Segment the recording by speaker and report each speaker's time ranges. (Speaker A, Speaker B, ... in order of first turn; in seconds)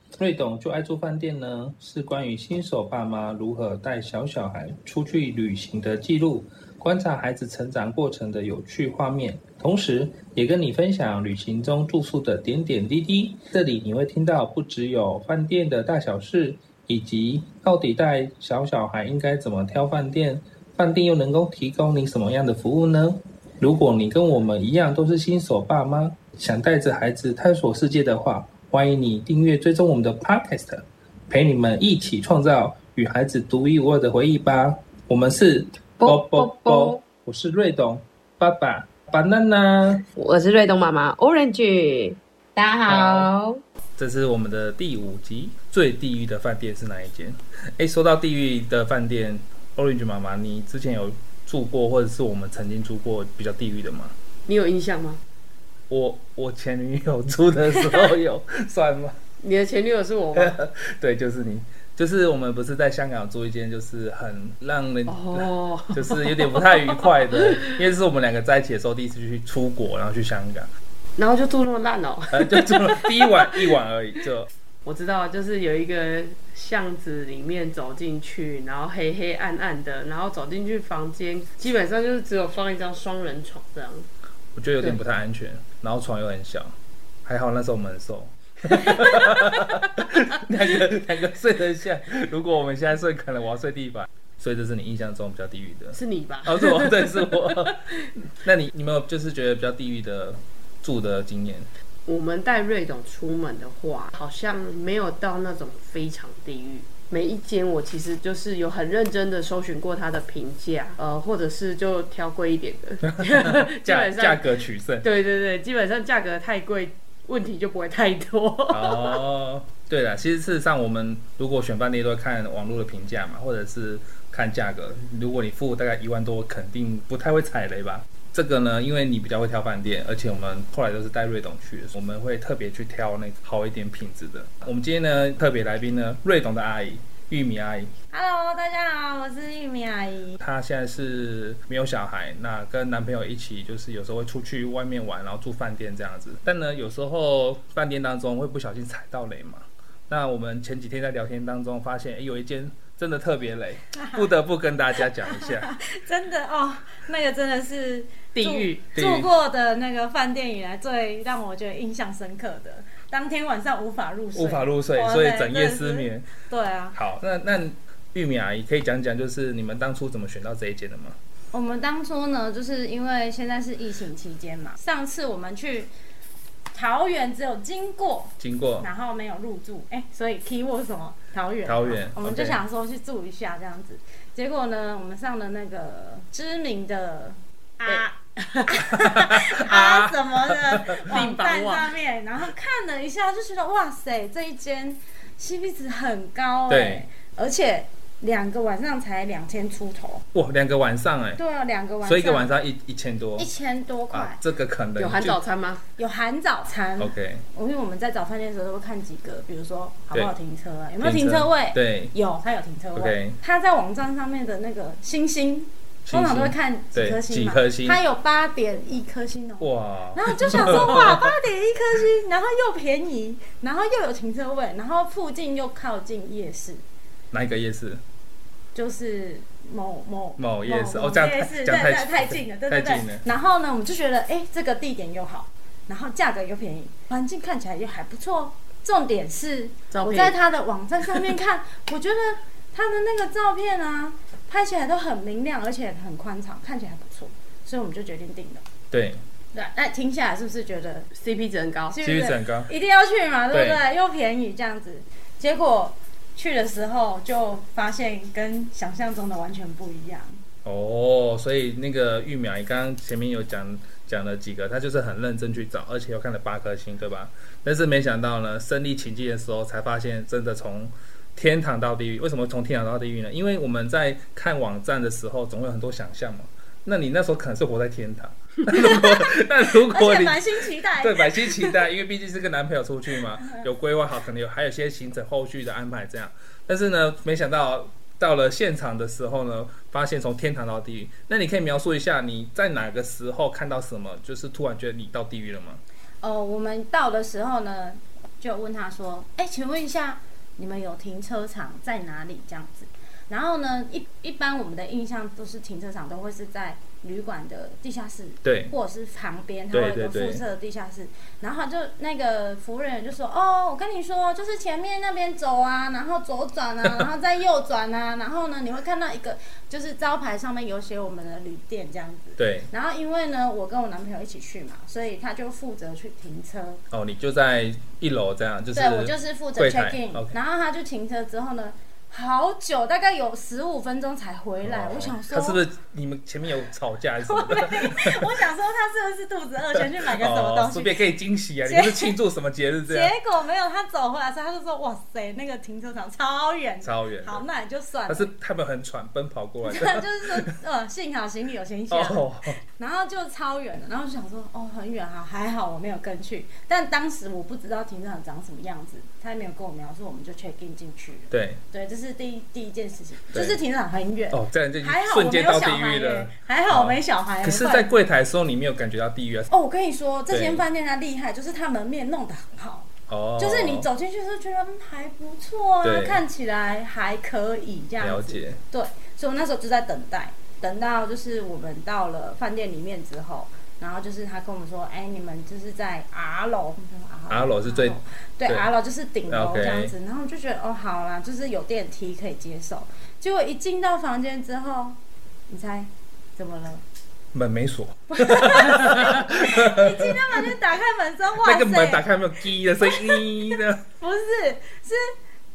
Speaker A: 0.2-40.0, 42.9-43.3, 44.0-54.1, 55.9-59.2, 60.4-70.7, 72.3-74.5, 84.5-101.7, 113.1-115.1, 118.7-137.9, 140.4-155.7, 158.9-159.3, 164.3-166.3, 166.9-171.2, 178.4-178.9, 181.7-182.6, 188.9-191.0, 196.7-197.1, 200.3-201.4, 202.0-203.5, 204.1-205.4, 207.0-207.4, 211.0-212.1, 213.0-213.4, 216.1-218.0, 219.6-221.3, 227.3-228.0, 230.4-233.2, 248.9-249.2, 252.0-252.7, 253.5-253.8, 260.6-295.8, 308.4-308.7, 309.7-310.4, 322.4-322.7, 326.9-330.3, 334.6-338.4, 340.0-343.1, 346.8-347.4, 348.1-350.4, 351.9-352.6, 361.3-361.6, 363.3-363.6, 364.3-369.5, 370.3-370.6, 373.1-373.9, 375.8-376.2, 378.0-378.6, 387.3-388.7, 389.3-389.9, 397.3-400.5, 401.4-403.8
Speaker B: 36.0-37.0, 40.1-43.6, 54.5-55.2, 59.4-60.6, 65.1-67.7, 71.2-73.8, 74.8-84.1, 96.0-98.0, 102.1-119.2, 158.3-158.8, 187.9-188.8, 191.0-192.0, 205.0-205.8, 239.9-240.4, 251.1-252.0
Speaker C: 138.1-140.4, 153.9-154.2, 155.2-167.0, 171.5-175.9, 176.7-200.2, 201.4-202.5, 203.4-204.4, 206.0-226.8, 228.7-248.6, 249.5-251.1, 251.9-260.4, 278.7-281.9, 296.2-326.8, 328.7-335.6, 337.2-341.1, 341.6-342.2, 342.9-348.3, 349.6-367.9, 369.5-395.0, 395.5-396.8, 398.1-402.1, 402.8-405.1